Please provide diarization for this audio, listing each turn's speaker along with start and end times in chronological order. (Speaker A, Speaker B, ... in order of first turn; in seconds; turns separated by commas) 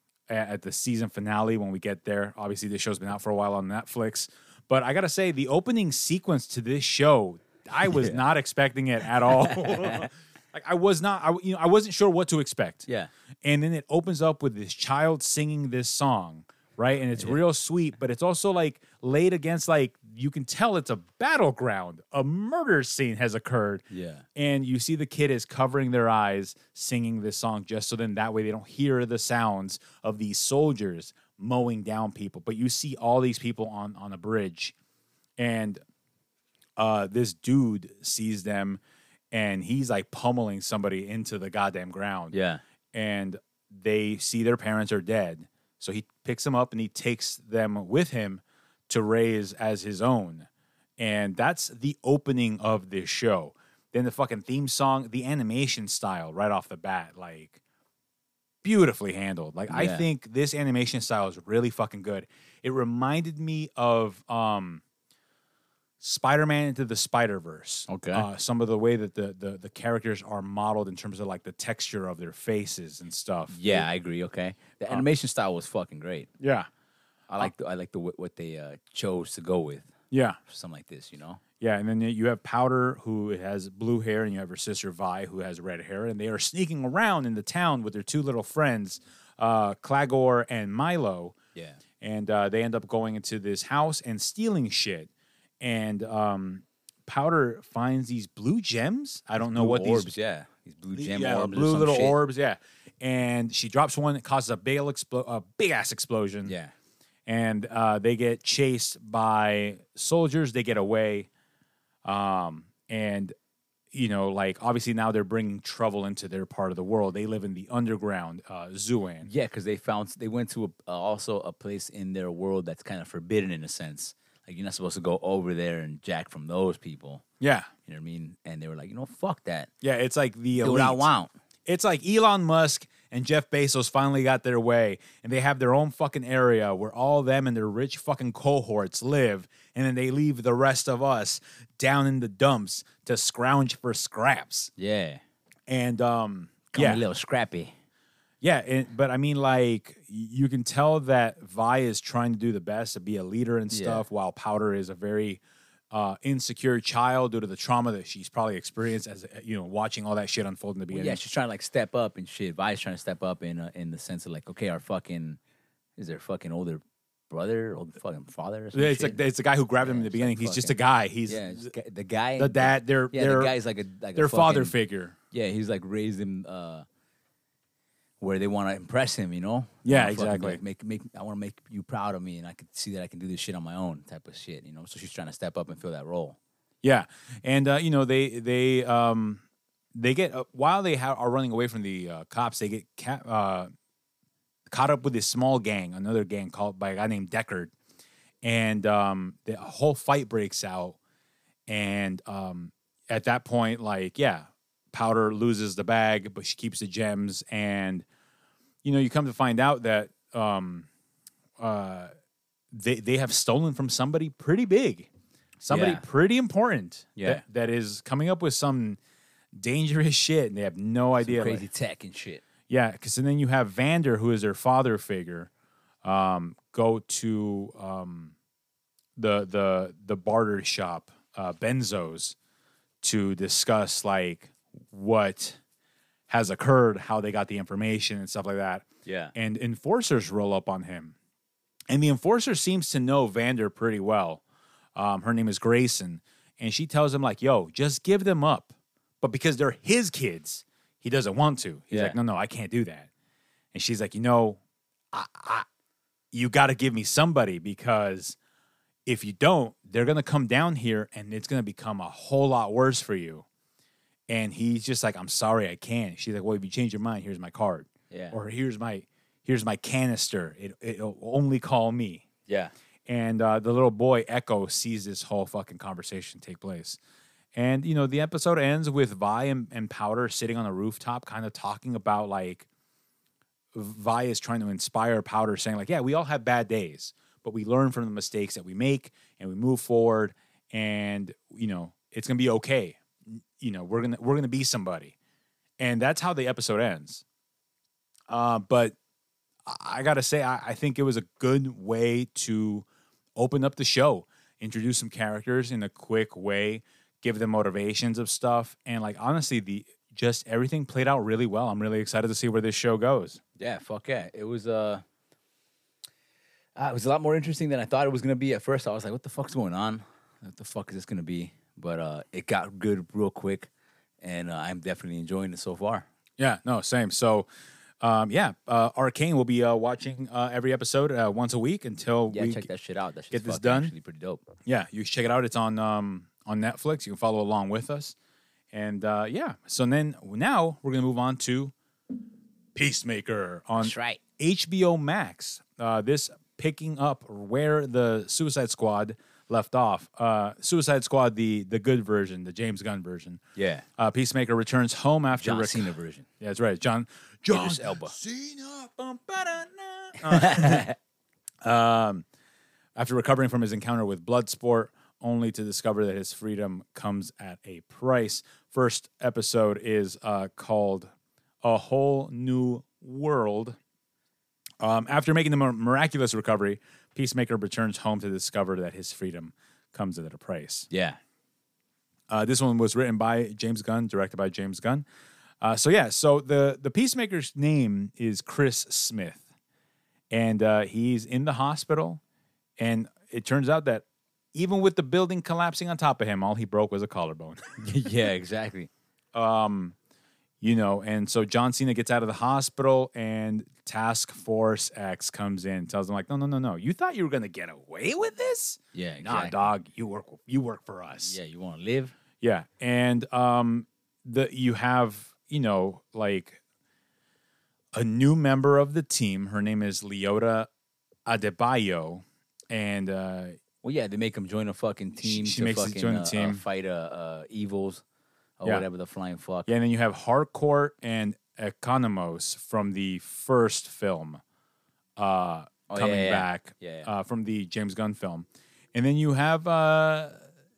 Speaker A: 0.3-12.8, Speaker B: 7.8-8.2, Speaker B: 9.3-10.1, Speaker A: 13.4-23.8, Speaker B: 23.9-24.2, Speaker A: 24.4-34.7, Speaker A: 35.4-35.8, Speaker A: 36.8-38.8, Speaker A: 39.3-42.3, Speaker B: 42.3-42.6, Speaker A: 42.9-57.6, Speaker A: 58.6-64.8, Speaker B: 59.7-60.0, Speaker A: 66.0-73.9, Speaker B: 67.9-68.3, Speaker B: 73.5-76.3, Speaker A: 76.4-76.7, Speaker B: 77.3-79.9, Speaker A: 80.1-80.4, Speaker B: 80.5-81.4, Speaker A: 81.6-91.3, Speaker B: 91.5-91.8, Speaker A: 92.0-95.1, Speaker A: 95.6-100.1, Speaker B: 99.4-102.2, Speaker A: 100.9-106.5, Speaker B: 106.4-106.7, Speaker A: 107.3-111.3, Speaker A: 112.0-113.3, Speaker A: 113.9-119.3, Speaker B: 119.2-127.2, Speaker A: 127.4-127.7, Speaker B: 127.8-129.7, Speaker A: 129.8-131.1, Speaker B: 130.6-131.3, Speaker A: 131.7-144.7, Speaker B: 144.8-145.2, Speaker A: 145.7-147.0, Speaker B: 146.7-147.7, Speaker A: 148.4-161.2, Speaker B: 153.7-154.0, Speaker B: 160.9-165.4, Speaker B: 166.0-169.2, Speaker A: 168.7-171.7, Speaker B: 169.8-174.7, Speaker A: 172.4-173.5, Speaker A: 174.1-175.2, Speaker B: 175.3-176.8, Speaker B: 178.2-186.4, Speaker A: 179.8-180.6, Speaker A: 186.8-189.4, Speaker A: 189.9-193.7, Speaker A: 194.7-197.7, Speaker A: 198.4-201.0, Speaker A: 201.7-208.0, Speaker A: 208.8-210.9, Speaker A: 211.6-212.1, Speaker A: 212.7-215.1, Speaker A: 215.6-219.0, Speaker B: 215.7-216.0, Speaker B: 217.2-217.4, Speaker A: 219.5-221.7, Speaker B: 221.2-222.4, Speaker A: 222.7-225.5, Speaker A: 226.0-228.3, Speaker A: 229.2-232.3, Speaker A: 233.0-235.6, Speaker A: 236.3-241.1, Speaker B: 239.0-239.3, Speaker A: 241.9-244.4, Speaker A: 244.9-253.1, Speaker B: 251.9-252.2, Speaker A: 253.7-254.6, Speaker A: 255.1-255.7, Speaker A: 256.3-258.4, Speaker A: 259.1-263.4, Speaker A: 264.3-272.2, Speaker B: 268.1-268.4, Speaker B: 272.5-272.7, Speaker A: 273.1-277.0, Speaker A: 277.5-282.6, Speaker A: 283.7-295.1, Speaker A: 295.8-297.2, Speaker A: 298.3-298.9, Speaker A: 299.6-313.4, Speaker B: 313.6-315.0, Speaker B: 316.8-323.7, Speaker B: 324.2-326.1, Speaker A: 326.4-327.5, Speaker A: 328.0-332.7, Speaker B: 332.3-334.4, Speaker A: 333.3-333.9, Speaker A: 334.6-338.1, Speaker A: 338.7-341.7, Speaker A: 342.7-353.4, Speaker B: 343.8-344.2, Speaker B: 353.6-353.8, Speaker A: 354.0-360.9, Speaker B: 355.4-356.2, Speaker B: 357.5-358.1, Speaker B: 360.2-360.9, Speaker A: 361.6-362.2, Speaker A: 362.9-371.1, Speaker A: 371.6-373.8, Speaker A: 374.8-380.9, Speaker B: 380.9-381.2, Speaker A: 382.3-385.0, Speaker A: 385.6-389.4, Speaker A: 390.3-392.2, Speaker A: 392.8-397.8, Speaker B: 397.8-398.9, Speaker A: 399.3-399.9, Speaker A: 400.6-411.4, Speaker B: 408.9-409.7, Speaker B: 411.2-412.1, Speaker A: 412.4-416.6, Speaker A: 417.9-420.7, Speaker A: 421.2-423.6, Speaker B: 423.8-428.0, Speaker A: 425.2-426.6, Speaker B: 428.6-429.7, Speaker A: 429.7-434.4, Speaker A: 435.2-440.4, Speaker B: 435.9-437.1